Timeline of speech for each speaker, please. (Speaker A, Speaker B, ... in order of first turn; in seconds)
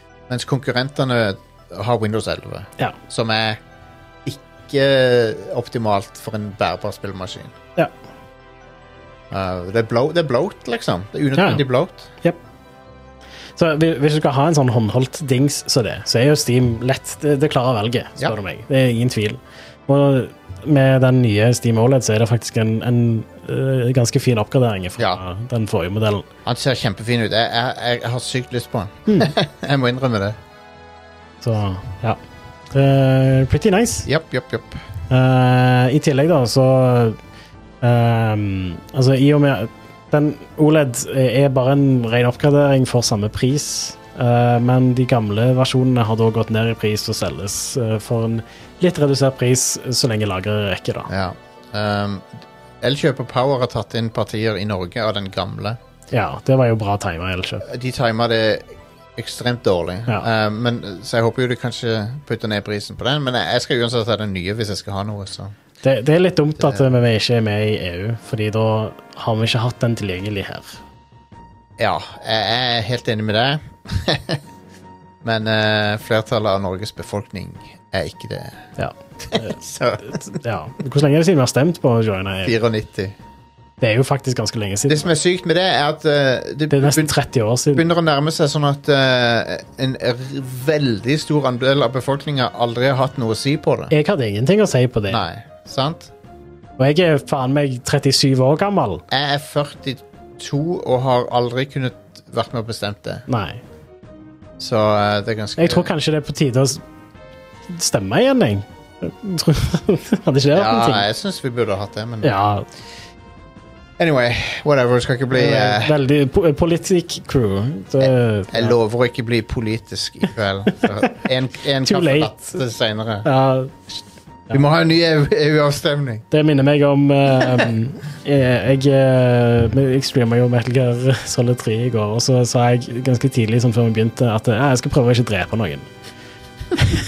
Speaker A: 0.3-3.6, 4.2-7.5, 9.3-12.1, 26.4-30.4, 34.0-34.8, 51.1-55.8, 57.6-65.5, 66.6-66.9, 71.8-74.4, 75.2-78.7, 79.3-80.2, 82.4-83.2, 84.9-87.1, 87.7-93.9, 95.1-96.1, 99.1-103.2, 104.6-105.9, 110.5-112.4, 114.0-116.0, 118.0-123.3, 124.5-126.2
Speaker B: 11.4-11.6, 13.6-26.2, 31.4-32.2, 32.7-34.1, 35.1-37.2, 37.8-51.1, 56.1-57.6, 65.8-70.7, 78.8-82.5, 83.8-85.1, 86.7-87.8, 93.9-95.2, 96.8-99.0, 103.3-103.6, 105.6-106.8, 107.7-111.0, 112.2-112.6, 115.3-118.7, 121.8-122.6, 123.2-124.6, 126.3-135.9